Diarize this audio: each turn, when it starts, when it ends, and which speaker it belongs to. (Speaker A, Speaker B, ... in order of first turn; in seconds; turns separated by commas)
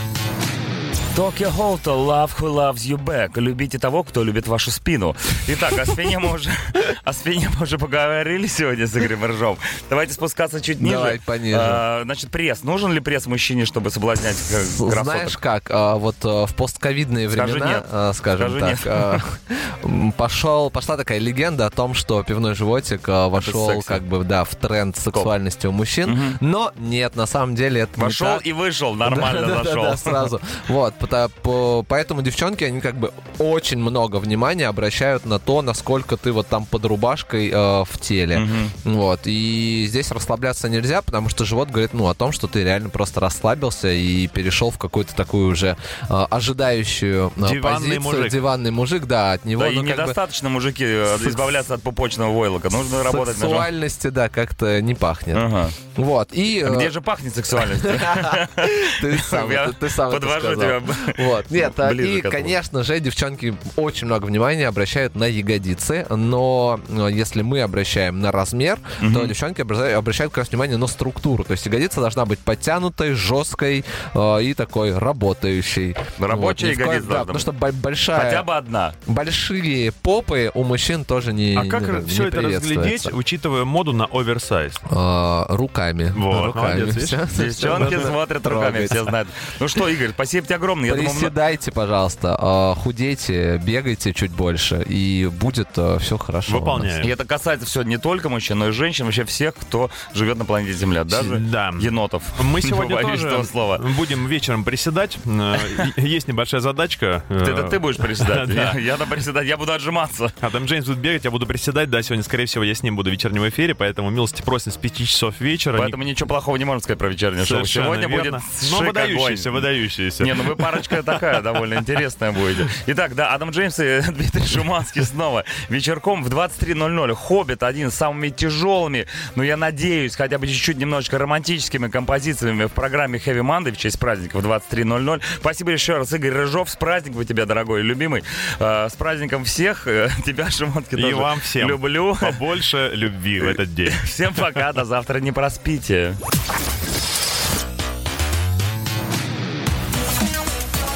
Speaker A: 1.1-15.4, Speaker B: 10.8-11.8, Speaker B: 14.6-28.4, Speaker A: 17.3-19.2, Speaker A: 23.4-24.0, Speaker A: 26.1-26.4, Speaker A: 28.0-30.3, Speaker B: 29.0-50.2, Speaker A: 38.3-38.7, Speaker C: 47.4-48.4, Speaker A: 49.6-53.7, Speaker B: 51.1-51.6, Speaker B: 53.0-56.9, Speaker A: 55.3-55.8, Speaker A: 56.6-62.6, Speaker B: 57.6-78.5, Speaker A: 69.0-69.3, Speaker A: 76.2-77.5, Speaker A: 78.1-79.0, Speaker B: 79.1-83.2, Speaker C: 81.6-84.8, Speaker B: 84.9-89.1, Speaker C: 86.2-87.2, Speaker A: 87.3-91.3, Speaker B: 90.9-96.9, Speaker C: 96.5-97.1, Speaker A: 97.0-103.8, Speaker C: 101.1-108.8, Speaker A: 107.4-110.3, Speaker C: 110.4-116.0, Speaker A: 115.8-119.7, Speaker C: 117.4-121.2, Speaker A: 120.2-142.4, Speaker C: 140.9-144.6, Speaker A: 143.4-146.2